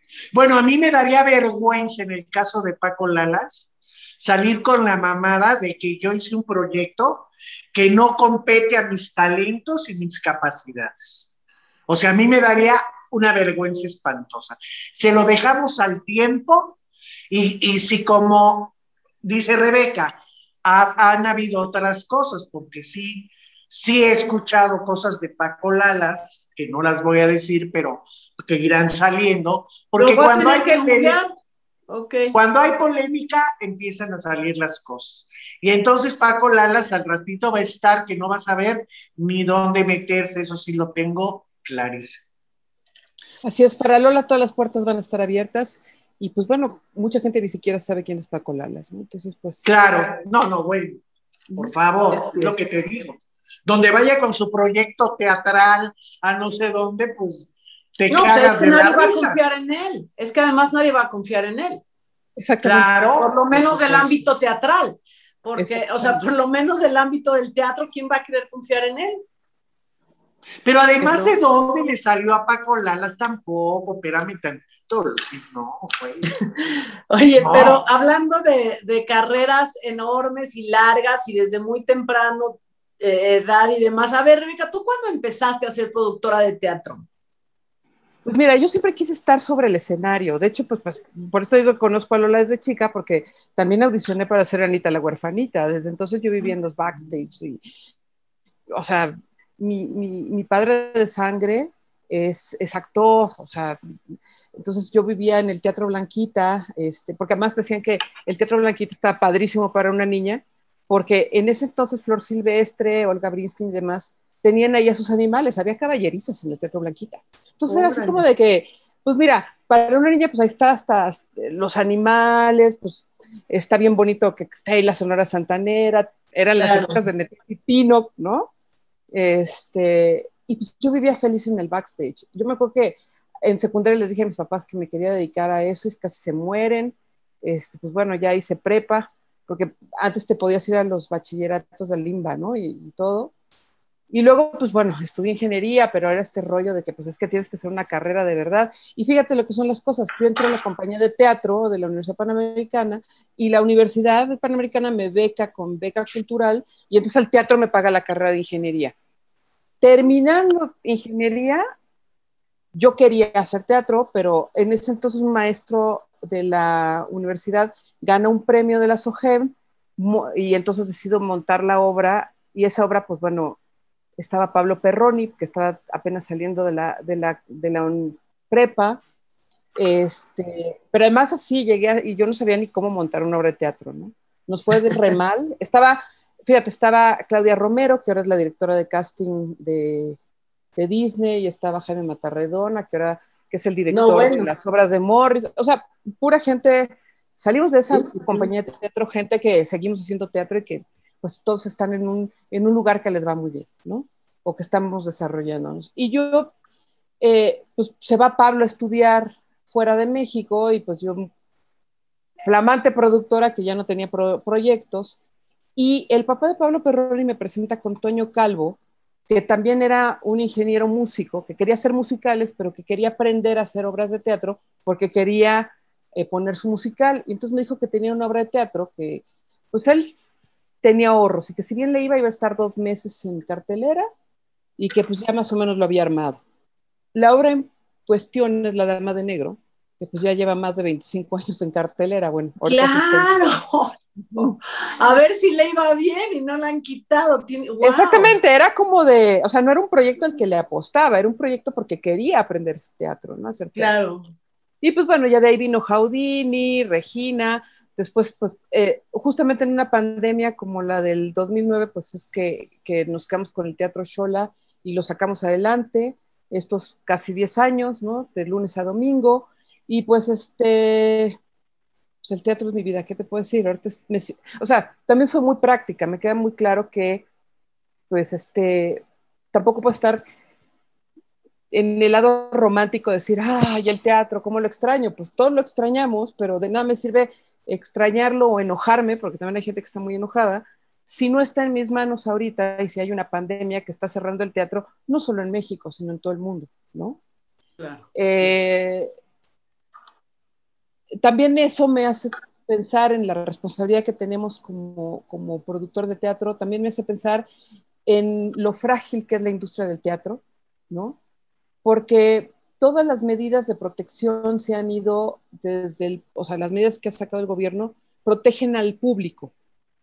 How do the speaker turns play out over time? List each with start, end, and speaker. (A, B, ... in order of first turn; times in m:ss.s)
0:00.3-0:11.3 A
0:11.9-0:16.8 A
0:17.3-0:31.2 A
0:30.0-0:31.3 B
0:31.9-0:32.3 B
0:32.3-0:42.2 A
0:43.4-0:49.6 C
0:49.6-0:51.0 A
0:51.6-0:59.4 A
0:52.1-0:52.5 B
0:58.1-1:01.8 B
1:02.4-1:02.9 C
1:02.6-1:04.1 A
1:03.2-1:09.2 B
1:05.6-1:06.2 C
1:10.6-1:16.3 A
1:11.0-1:11.3 C
1:17.1-1:27.0 B
1:17.4-1:17.8 A
1:28.2-1:37.6 C
1:38.7-1:44.0 C
1:44.5-2:08.5 C
1:57.7-1:58.2 B
2:06.6-2:07.0 B
2:09.1-2:23.3 C
2:24.1-2:38.9 C
2:39.8-2:41.6 C
2:42.7-2:53.6 C
2:54.2-2:59.0 C
2:59.8-3:10.2 C
3:10.8-3:26.5 C
3:13.9-3:14.5 B
3:17.9-3:18.5 B
3:27.2-3:31.3 C
3:32.4-3:35.2 C
3:35.8-3:50.2 C
3:50.8-3:54.0 C
3:54.8-3:56.4 C
3:57.1-4:03.3 C
4:02.6-4:08.3 B
4:07.8-4:13.9 C
4:13.7-4:14.3 B
4:14.8-4:31.4 C
4:32.2-4:37.2 C
4:38.1-4:40.2 C
4:41.7-4:57.2 C
4:57.8-4:58.5 B
4:58.1-4:59.1 C
5:01.2-5:07.5 C
5:08.0-5:11.2 C
5:11.8-5:19.5 C